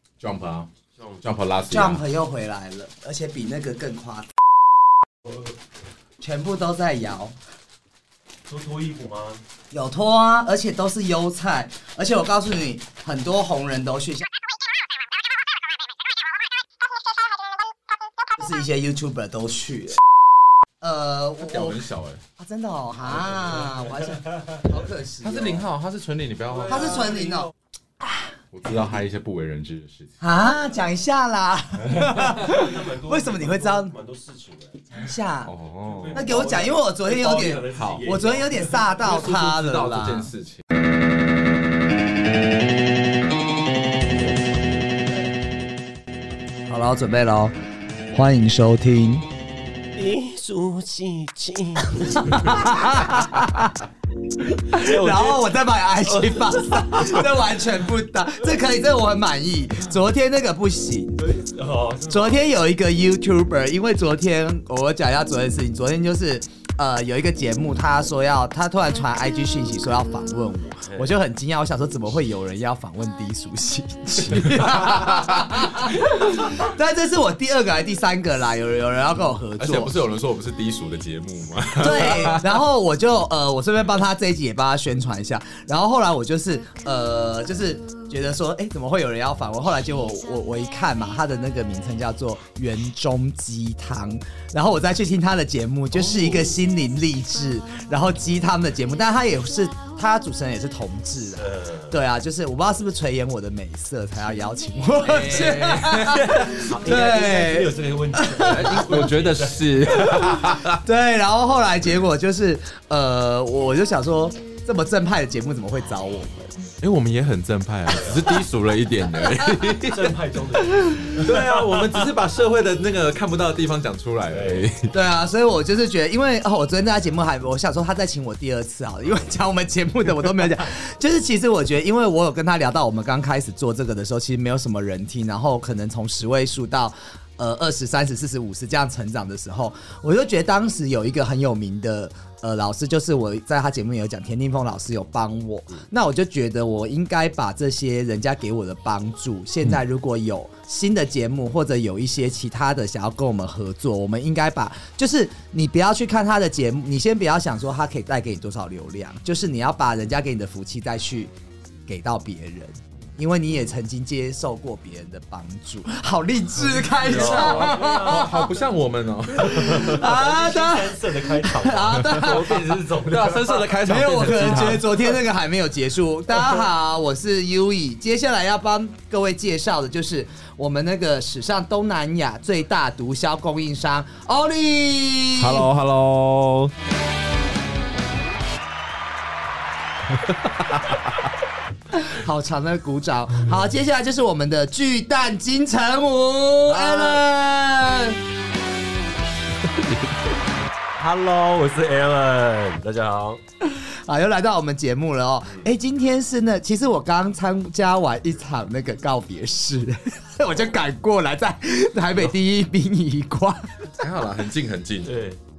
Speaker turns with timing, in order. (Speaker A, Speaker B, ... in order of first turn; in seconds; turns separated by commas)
Speaker A: 0.2-0.7, Speaker B: 0.9-1.3, Speaker A: 1.2-2.0, Speaker C: 1.7-4.3, Speaker C: 6.2-7.3, Speaker B: 8.5-9.4, Speaker C: 9.7-14.2, Speaker C: 18.4-20.0, Speaker C: 20.8-21.8, Speaker A: 21.4-22.2, Speaker C: 22.4-25.6, Speaker A: 25.2-27.2, Speaker B: 26.6-27.5, Speaker C: 26.7-28.3, Speaker A: 28.5-30.1, Speaker C: 30.2-33.9, Speaker B: 32.0-34.9, Speaker C: 34.9-35.5, Speaker A: 35.4-36.3, Speaker B: 35.9-39.0, Speaker C: 36.1-40.3, Speaker A: 37.7-38.1, Speaker A: 39.0-40.6, Speaker C: 46.7-47.5, Speaker C: 48.1-49.2, Speaker B: 49.9-53.3, Speaker C: 52.4-53.8, Speaker C: 54.5-61.2, Speaker B: 54.7-55.5, Speaker B: 56.0-57.3, Speaker B: 61.2-62.5, Speaker C: 62.1-79.9, Speaker B: 70.9-71.1, Speaker A: 74.6-75.5, Speaker A: 79.6-82.5, Speaker C: 81.8-108.8, Speaker B: 96.0-96.5, Speaker B: 101.4-102.0, Speaker A: 105.0-106.3, Speaker B: 105.1-110.2, Speaker A: 108.4-110.8, Speaker C: 110.2-116.6, Speaker A: 116.8-120.2, Speaker C: 119.4-119.7, Speaker B: 119.8-122.1, Speaker A: 121.1-124.9, Speaker B: 124.3-124.7, Speaker C: 124.9-161.3, Speaker C: 161.9-168.4, Speaker B: 166.9-168.5, Speaker A: 167.0-170.0, Speaker C: 169.3-172.6, Speaker B: 169.4-173.7, Speaker A: 173.0-174.9, Speaker C: 173.8-185.7, Speaker A: 185.5-186.7, Speaker A: 190.2-191.1, Speaker C: 192.0-198.2, Speaker B: 196.7-197.2, Speaker B: 200.9-203.4, Speaker C: 203.6-213.8, Speaker A: 214.0-215.2, Speaker B: 215.0-215.4